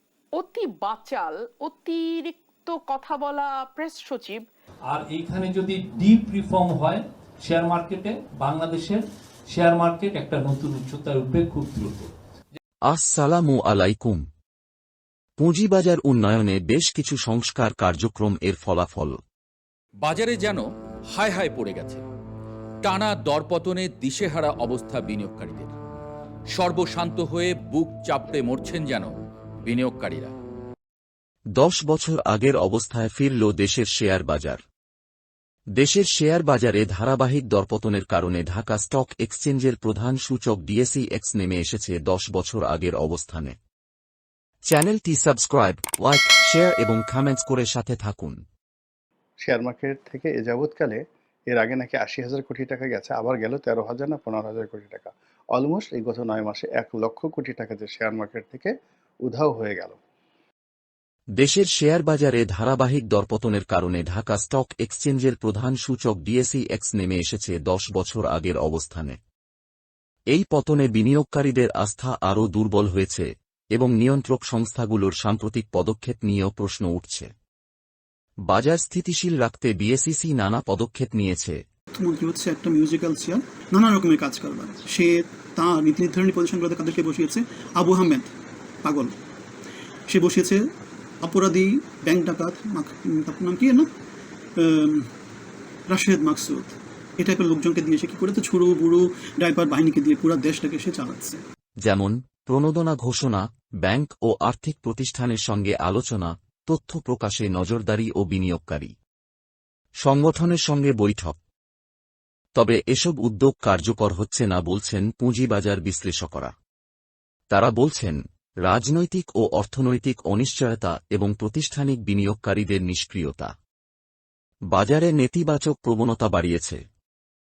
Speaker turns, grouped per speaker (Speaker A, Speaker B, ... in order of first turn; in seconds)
Speaker A: 0.3-4.5
Speaker B: 4.9-12.1
Speaker C: 12.9-14.2, 15.4-19.2, 31.6-34.6, 35.8-43.5, 44.7-48.4, 61.4-69.2, 70.3-77.3, 78.5-81.6, 101.8-108.9, 110.0-111.4, 112.5-116.5, 117.5-123.5, 124.7-126.8
Speaker D: 20.0-22.0, 22.8-25.7, 26.5-29.1, 29.6-30.3
Speaker E: 49.4-58.7, 59.2-60.0
Speaker F: 81.9-89.1, 90.1-90.7, 91.2-93.9, 94.6-95.1, 95.9-101.4